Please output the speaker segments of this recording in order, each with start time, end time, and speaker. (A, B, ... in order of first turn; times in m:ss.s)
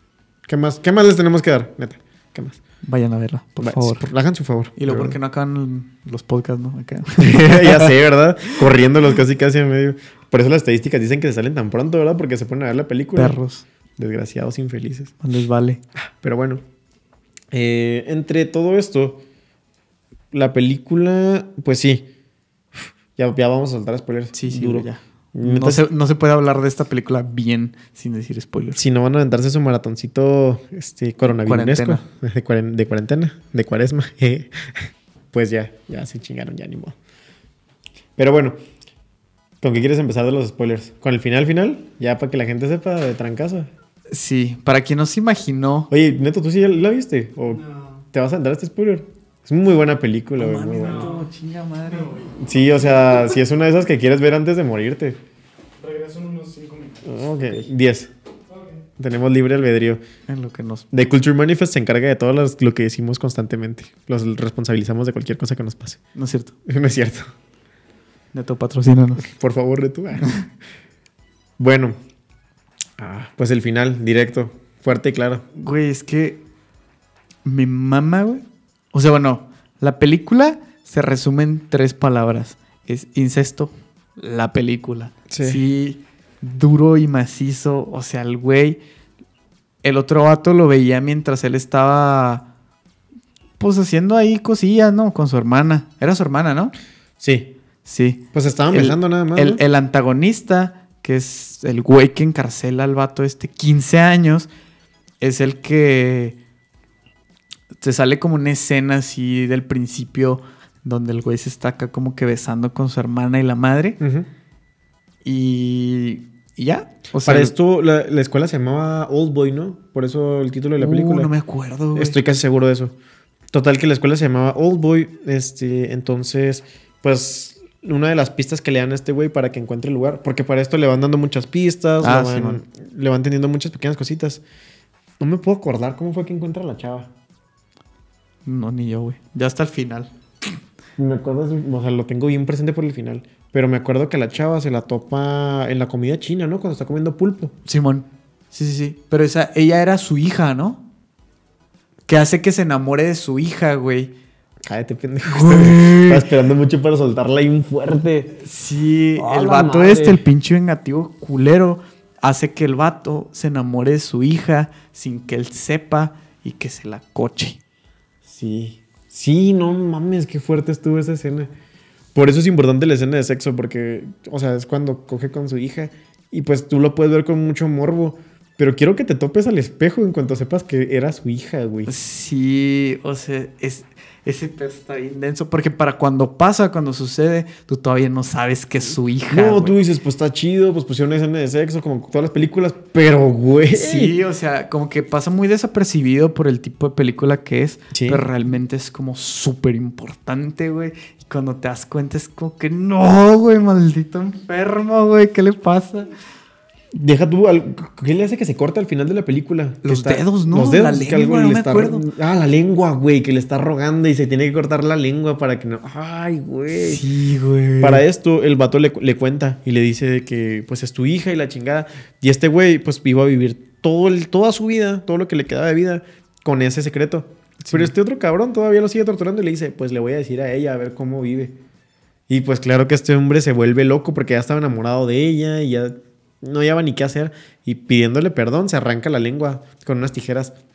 0:00.5-0:02.6 A
0:02.8-0:04.1 B
0:03.6-0:05.2 A
0:04.8-0:08.0 B
0:07.2-0:13.4 A
0:13.2-0:13.6 B
0:14.0-0:15.1 A
0:15.2-0:15.8 B
0:16.0-0:16.6 A
0:17.5-0:19.2 A
0:20.3-0:22.1 A
0:23.2-0:25.8 A
0:24.3-0:28.8 B
0:28.7-0:34.8 A
0:31.4-0:32.0 B
0:35.3-0:37.0 A
0:38.2-0:38.6 A
0:39.6-0:43.7 A
0:44.1-0:45.9 B
0:45.9-0:51.1 A
0:47.5-0:48.0 C
0:50.4-0:52.2 B
0:50.8-0:51.2 C
0:51.9-0:52.3 C
0:52.4-0:55.2 A
0:55.8-0:57.2 C
0:57.0-0:58.1 A
0:59.0-1:00.0 A
1:00.3-1:00.8 B
1:00.9-1:06.0 A
1:06.1-1:06.5 B
1:06.6-1:07.3 A
1:08.3-1:09.3 B
1:09.2-1:10.3 A
1:11.6-1:12.0 A
1:13.0-1:15.4 A
1:15.5-1:16.4 B
1:17.4-1:28.8 B
1:25.3-1:25.6 A
1:29.8-1:32.4 B
1:33.6-1:36.7 B
1:37.2-1:37.5 A
1:37.8-1:44.5 B
1:38.3-1:39.6 A
1:45.2-1:46.4 B
1:47.8-1:54.0 B
1:54.0-1:54.3 A
1:55.2-1:57.5 B
1:57.2-2:01.3 A
2:00.8-2:02.2 B
2:01.9-2:02.9 A
2:03.5-2:14.4 A
2:12.0-2:12.6 B
2:15.2-2:17.1 A
2:18.4-2:20.1 B
2:21.0-2:27.5 A
2:27.6-2:30.8 B
2:32.1-2:34.1 B
2:34.6-2:38.4 A
2:35.2-2:36.2 B
2:38.4-2:47.6 B
2:39.2-2:40.2 A
2:48.2-2:51.5 A
2:52.1-3:01.9 A
3:01.9-3:09.8 B
3:09.3-3:14.2 A
3:13.7-3:26.1 B
3:17.9-3:18.2 A
3:26.9-3:37.0 A
3:29.8-3:32.0 B
3:36.7-3:38.0 B
3:37.8-3:51.6 A
3:47.6-3:47.9 B
3:52.3-4:00.5 A